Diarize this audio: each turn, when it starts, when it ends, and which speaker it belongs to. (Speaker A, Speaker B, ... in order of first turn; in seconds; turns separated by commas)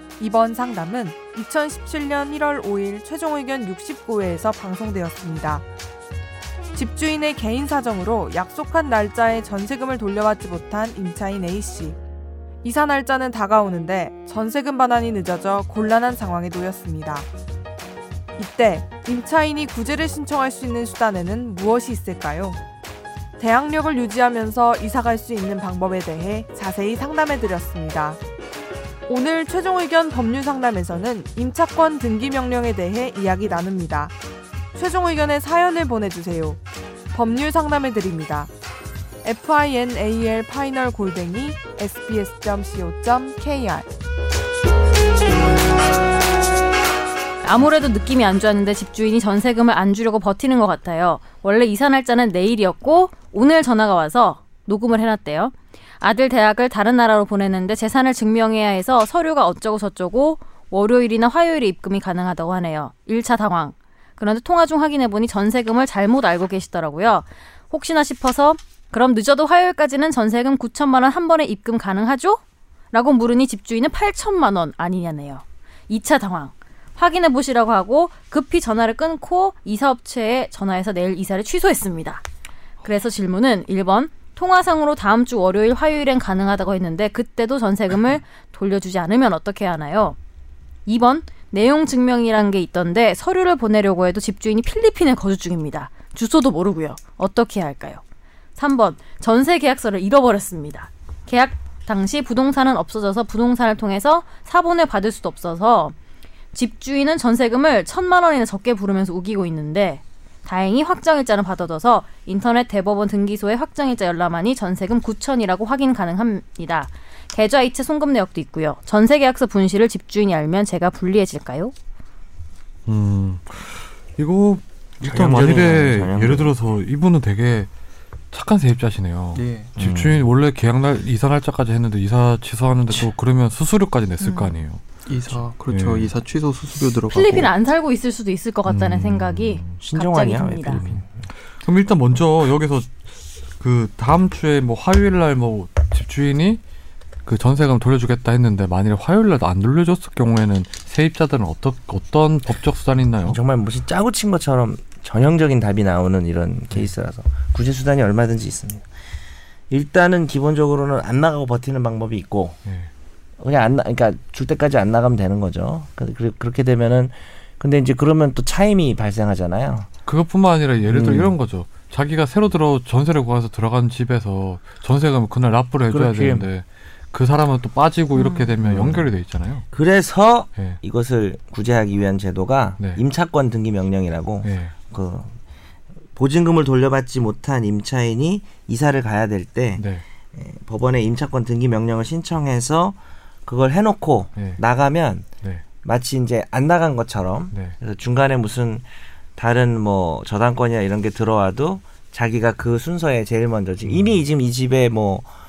Speaker A: 0.2-5.7, Speaker A: 6.7-12.0, Speaker A: 12.6-17.3, Speaker A: 18.4-22.6, Speaker A: 23.4-28.2, Speaker A: 29.1-34.1, Speaker A: 34.7-36.6, Speaker A: 37.1-38.5, Speaker A: 39.2-43.9, Speaker B: 47.4-82.2, Speaker B: 82.8-90.2, Speaker B: 90.9-98.0, Speaker B: 98.6-106.0, Speaker B: 106.5-121.7, Speaker C: 122.9-127.7, Speaker D: 125.0-126.5, Speaker C: 128.3-136.1, Speaker E: 129.3-129.7, Speaker D: 129.8-130.3, Speaker B: 134.2-134.5, Speaker E: 135.1-137.5, Speaker B: 137.1-140.8, Speaker C: 138.7-139.8, Speaker D: 139.8-141.2, Speaker C: 140.7-146.6, Speaker C: 147.2-153.4, Speaker D: 153.2-158.9, Speaker D: 159.7-162.6, Speaker C: 162.7-162.9, Speaker D: 163.4-169.9, Speaker C: 170.1-179.7, Speaker D: 170.9-171.3, Speaker D: 175.9-176.5, Speaker B: 178.1-178.6, Speaker D: 178.6-179.1, Speaker D: 179.7-185.4, Speaker C: 182.8-183.0, Speaker C: 184.4-184.8, Speaker D: 186.2-205.3, Speaker C: 189.8-190.1, Speaker C: 194.3-194.6, Speaker C: 197.5-197.8, Speaker C: 203.8-204.2